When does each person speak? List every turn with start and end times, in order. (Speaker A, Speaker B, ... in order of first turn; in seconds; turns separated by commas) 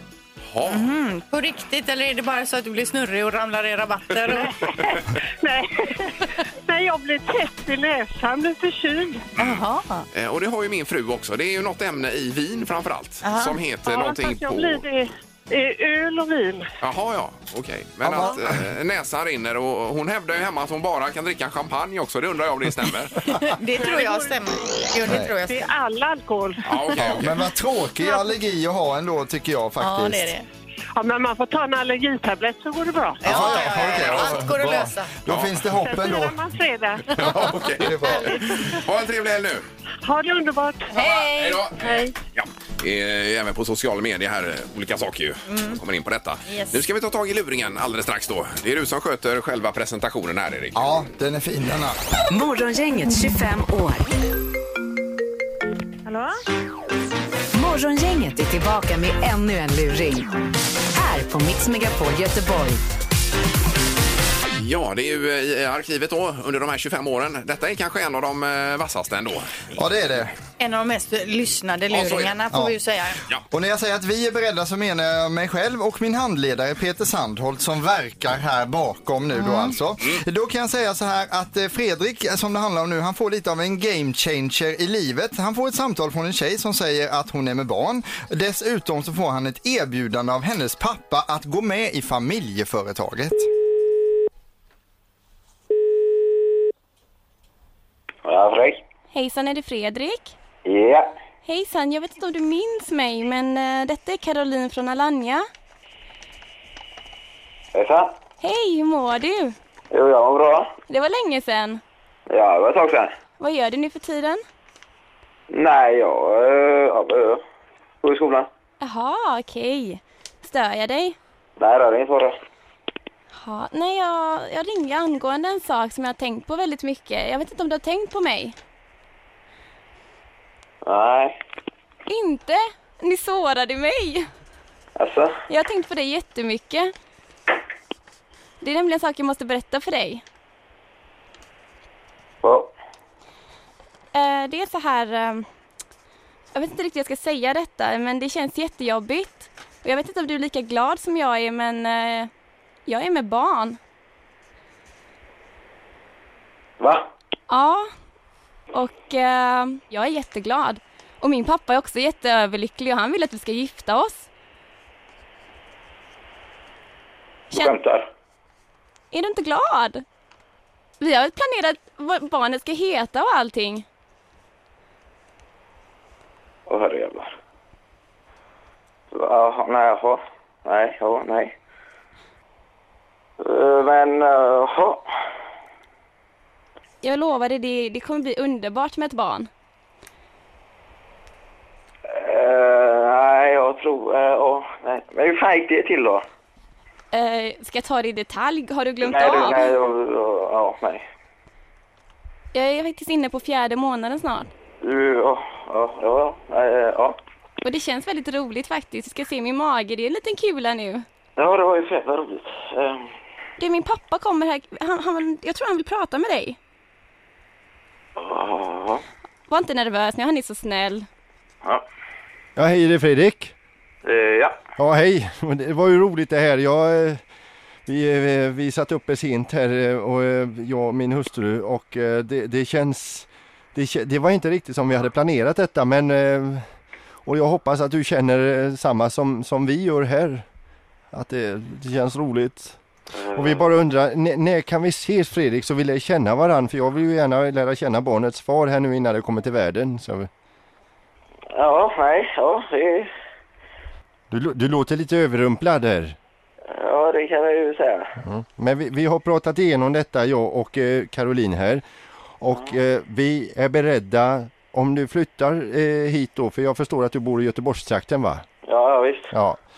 Speaker A: 0.5-0.9, Speaker B: 0.7-4.5, Speaker C: 4.5-6.1, Speaker C: 6.7-9.2, Speaker B: 9.4-10.0, Speaker A: 9.4-14.8, Speaker B: 13.2-13.6, Speaker C: 13.8-16.7, Speaker A: 16.8-23.2, Speaker D: 18.1-18.6, Speaker B: 23.3-25.7, Speaker C: 23.8-24.4, Speaker D: 25.1-25.3, Speaker C: 25.5-26.6, Speaker A: 26.6-27.3, Speaker D: 27.0-30.3, Speaker B: 29.8-30.4, Speaker C: 30.9-33.2, Speaker B: 33.2-35.1, Speaker D: 33.2-36.4, Speaker A: 33.9-34.3, Speaker A: 35.3-35.6, Speaker C: 35.8-37.1, Speaker A: 37.1-39.6, Speaker D: 37.7-38.4, Speaker B: 38.0-38.5, Speaker C: 40.0-41.1, Speaker B: 40.9-42.1, Speaker A: 41.0-50.9, Speaker B: 45.5-45.8, Speaker B: 46.5-46.8, Speaker D: 50.7-52.0, Speaker E: 52.3-54.1, Speaker C: 56.0-56.4, Speaker E: 57.5-60.3, Speaker E: 60.9-62.8, Speaker A: 64.6-69.6, Speaker D: 69.8-70.3, Speaker B: 70.6-73.2, Speaker A: 71.9-72.4, Speaker D: 73.5-93.5, Speaker B: 79.3-79.7, Speaker F: 98.2-98.8, Speaker G: 99.1-100.3, Speaker F: 100.6-101.1, Speaker G: 101.4-105.5, Speaker F: 107.7-108.2, Speaker G: 108.4-109.5, Speaker F: 109.9-110.7, Speaker G: 110.9-111.8, Speaker F: 112.3-113.1, Speaker G: 113.4-114.4, Speaker F: 115.5-117.4, Speaker F: 118.0-118.5, Speaker G: 118.8-121.2, Speaker F: 121.6-122.3, Speaker G: 123.3-128.6, Speaker F: 130.8-131.4, Speaker G: 132.1-134.3, Speaker F: 135.0-135.4, Speaker G: 135.5-136.9, Speaker G: 138.6-140.2, Speaker F: 142.4-142.7, Speaker G: 144.1-145.4, Speaker G: 146.5-152.3, Speaker G: 152.9-153.8, Speaker F: 156.8-157.1, Speaker G: 157.5-157.9, Speaker G: 158.7-164.2, Speaker G: 167.5-167.8, Speaker F: 167.5-168.1, Speaker G: 169.1-170.0, Speaker G: 171.0-173.8, Speaker F: 176.7-177.3, Speaker F: 179.1-181.5, Speaker F: 183.4-185.1, Speaker G: 187.0-189.5, Speaker F: 192.1-196.2, Speaker G: 197.1-199.8, Speaker F: 199.0-201.0, Speaker G: 202.5-204.5, Speaker F: 204.8-207.2, Speaker G: 207.6-211.1, Speaker F: 211.4-213.1, Speaker G: 213.6-216.6, Speaker F: 218.2-219.0, Speaker G: 219.5-221.1, Speaker H: 222.6-223.5, Speaker F: 224.0-224.6, Speaker H: 224.8-227.2, Speaker H: 227.8-236.7, Speaker H: 237.2-240.4, Speaker H: 241.1-242.8, Speaker F: 243.1-243.7, Speaker H: 243.3-250.3, Speaker F: 251.5-253.1, Speaker H: 254.3-256.1, Speaker F: 256.7-258.1, Speaker H: 258.2-261.8, Speaker H: 262.4-268.4, Speaker F: 268.6-269.3, Speaker H: 269.3-269.6